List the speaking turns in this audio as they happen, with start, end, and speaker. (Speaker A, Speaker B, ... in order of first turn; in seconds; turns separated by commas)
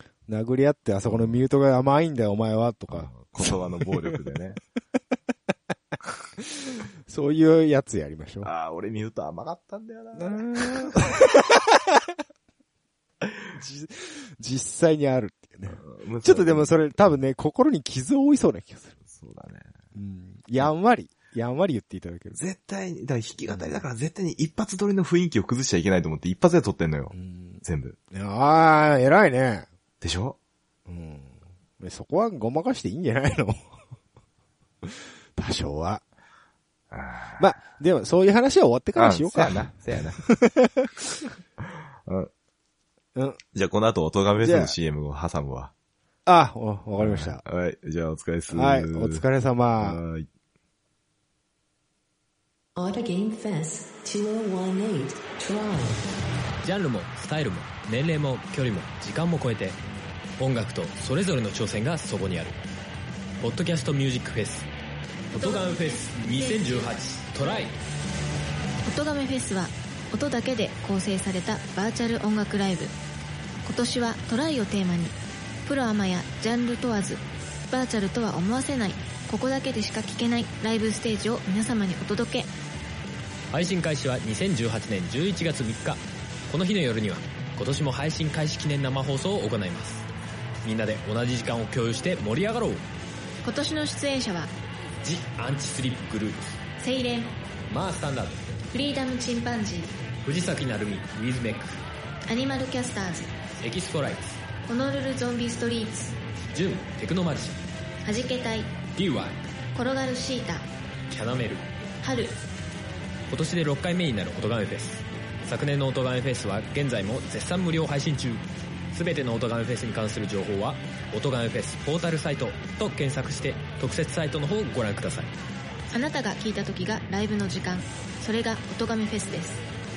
Speaker A: 0.3-4.2, Speaker B: 1.1-1.4, Speaker B: 2.9-4.6, Speaker A: 6.6-8.5, Speaker B: 8.4-11.2, Speaker A: 10.2-12.0, Speaker A: 13.5-19.0, Speaker B: 15.7-16.8, Speaker B: 19.1-19.7, Speaker A: 19.9-22.4, Speaker B: 22.4-28.0, Speaker A: 23.5-23.8, Speaker A: 27.1-29.7, Speaker B: 30.0-30.4, Speaker A: 30.9-33.6, Speaker A: 34.8-36.0, Speaker B: 36.9-37.6, Speaker A: 37.4-40.9, Speaker B: 39.0-40.2, Speaker B: 41.6-42.3, Speaker A: 43.1-43.4, Speaker B: 43.5-45.7, Speaker A: 44.4-44.7, Speaker A: 46.3-47.4, Speaker B: 47.0-49.3, Speaker A: 48.5-50.0, Speaker B: 49.8-50.3, Speaker C: 52.8-56.0, Speaker D: 56.6-59.8, Speaker D: 60.4-62.6, Speaker D: 63.4-64.7, Speaker D: 65.3-67.7, Speaker E: 65.3-67.0, Speaker E: 68.8-72.9, Speaker E: 73.6-75.2, Speaker E: 75.7-82.5, Speaker D: 83.5-90.1, Speaker D: 90.6-92.8, Speaker E: 93.4-94.5, Speaker D: 95.0-96.6, Speaker E: 96.8-97.3, Speaker D: 97.7-98.6, Speaker E: 98.7-99.9, Speaker D: 100.2-101.8, Speaker E: 102.3-103.3, Speaker D: 103.6-104.4, Speaker E: 104.7-106.1, Speaker D: 106.5-107.6, Speaker E: 108.0-108.7, Speaker D: 109.0-109.4, Speaker E: 109.8-110.7, Speaker D: 111.1-111.7, Speaker E: 112.0-112.4, Speaker D: 113.3-125.3, Speaker E: 125.9-129.6